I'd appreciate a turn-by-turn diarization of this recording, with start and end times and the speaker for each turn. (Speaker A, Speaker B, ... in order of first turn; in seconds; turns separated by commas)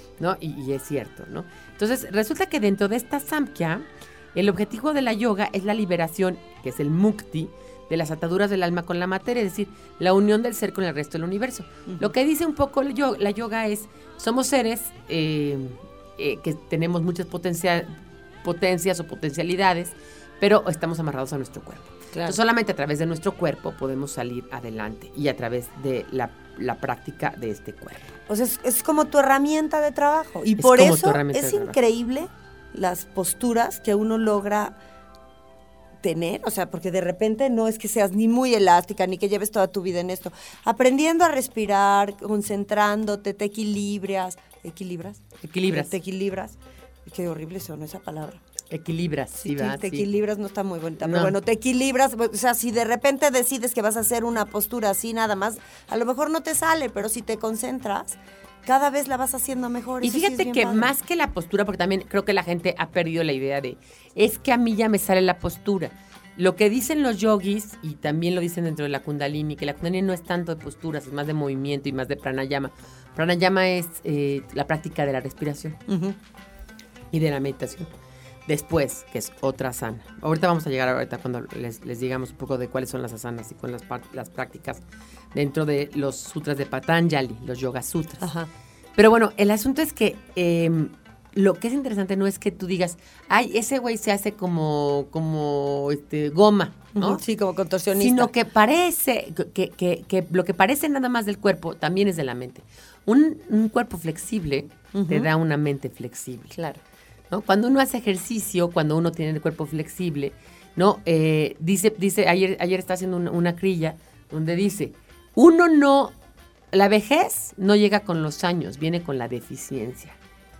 Speaker A: 0.2-28.1, Speaker B: 22.1-22.4, Speaker B: 28.3-34.8, Speaker A: 30.6-31.8, Speaker B: 36.0-48.4, Speaker A: 45.4-45.9, Speaker A: 48.7-50.1, Speaker B: 49.4-60.9, Speaker A: 51.0-51.3, Speaker A: 60.0-75.8, Speaker B: 75.9-76.2, Speaker A: 77.1-77.9, Speaker A: 78.5-84.8, Speaker A: 85.3-88.3, Speaker B: 88.2-88.5, Speaker A: 89.0-97.2, Speaker B: 97.0-98.3, Speaker A: 98.0-106.6, Speaker B: 104.9-105.3, Speaker B: 106.5-106.8, Speaker A: 107.3-116.1, Speaker A: 116.7-120.2